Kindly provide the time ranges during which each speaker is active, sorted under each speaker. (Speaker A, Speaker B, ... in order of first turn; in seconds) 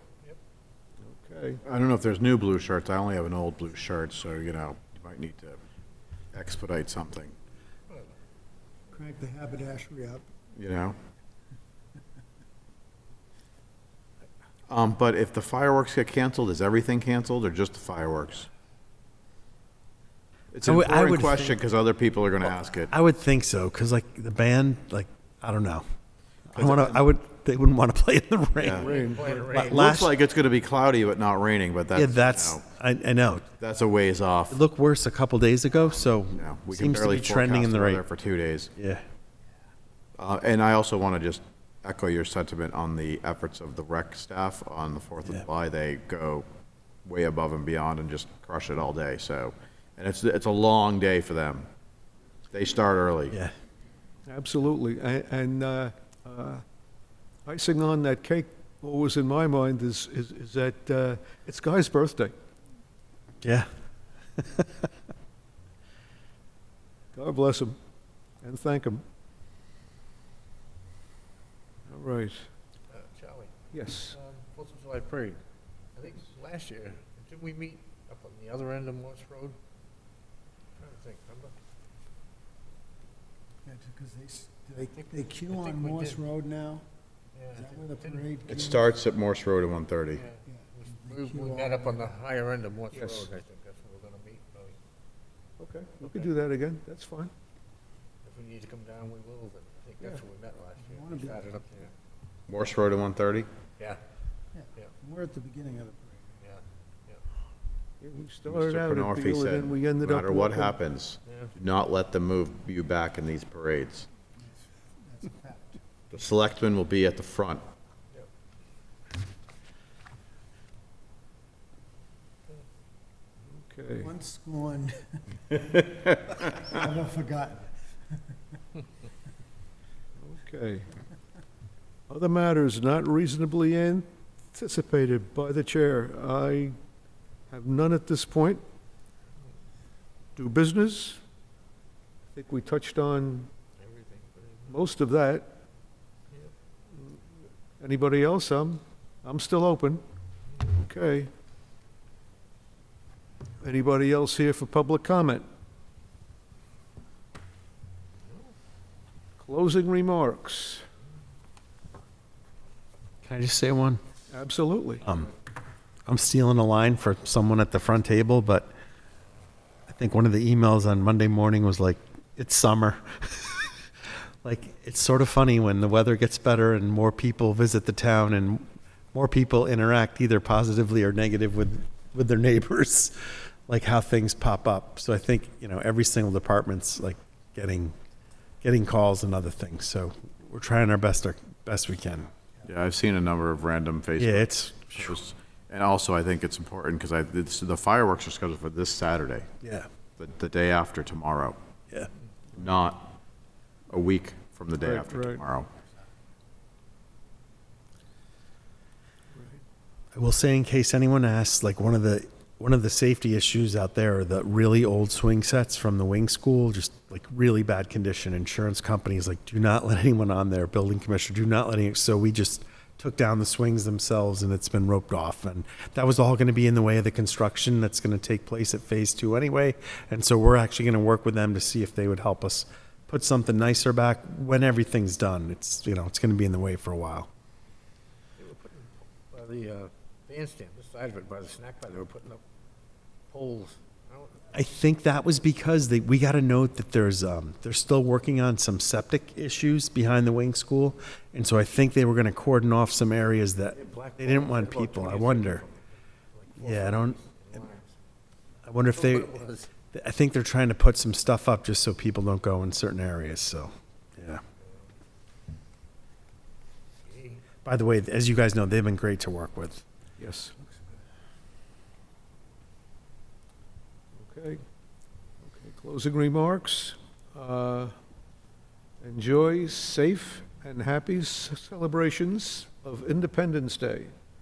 Speaker A: 1.0-1.6, 28.8-29.4, 54.3-56.6, 57.5-62.3, 67.1-67.8, 68.4-69.0, 71.9-72.5, 73.7-74.2, 92.9-93.3, 95.6-97.3, 108.0-110.8, 123.5-124.1, 130.2-130.9, 132.1-136.8, 137.5-138.6, 140.4-141.2, 142.3-143.5, 144.7-145.5, 147.8-150.0, 150.7-151.3, 153.6-155.5, 159.4-160.8, 164.3-165.1, 204.8-205.4, 209.3-209.6, 270.2-270.6, 274.2-274.6, 275.4-277.9, 279.0-284.1
Speaker B: 1.7-5.6, 6.3-7.3, 10.6-11.0, 14.7-18.5, 20.5-22.9, 26.5-27.1, 28.6-28.9, 29.5-32.6, 33.6-34.6, 35.8-38.7, 40.2-46.5, 47.0-51.7, 52.5-53.4, 88.5-90.3, 102.5-103.5, 108.5-114.1, 116.1-117.6, 125.6-126.7, 192.6-199.5, 200.2-201.6, 202.6-203.2, 203.9-205.7
Speaker C: 9.0-10.3, 83.7-86.9, 87.8-88.8, 104.5-106.3, 115.0-115.8, 124.0-125.2, 126.8-127.7
Speaker D: 20.6-21.6, 22.9-25.8, 26.5-28.9, 29.4-30.1, 31.9-33.5, 34.5-38.0, 38.8-39.0, 63.4-63.7, 64.4-64.9, 163.2-164.0, 165.0-165.3, 166.1-168.7, 169.9-173.8, 174.4-187.9, 188.6-192.3, 194.2-195.2, 199.6-199.9, 210.1-237.3, 244.5-255.7, 256.6-257.2, 258.6-259.4, 259.9-264.4, 267.6-269.9
Speaker E: 28.8-29.8, 72.9-73.5, 74.1-75.4, 76.0-79.6, 80.8-81.5, 84.8-86.3, 87.3-88.4, 90.2-94.8, 98.2-101.9, 106.4-107.2, 143.8-144.7, 238.4-242.4, 243.3-244.4, 253.7-257.9, 258.9-259.7, 267.1-267.4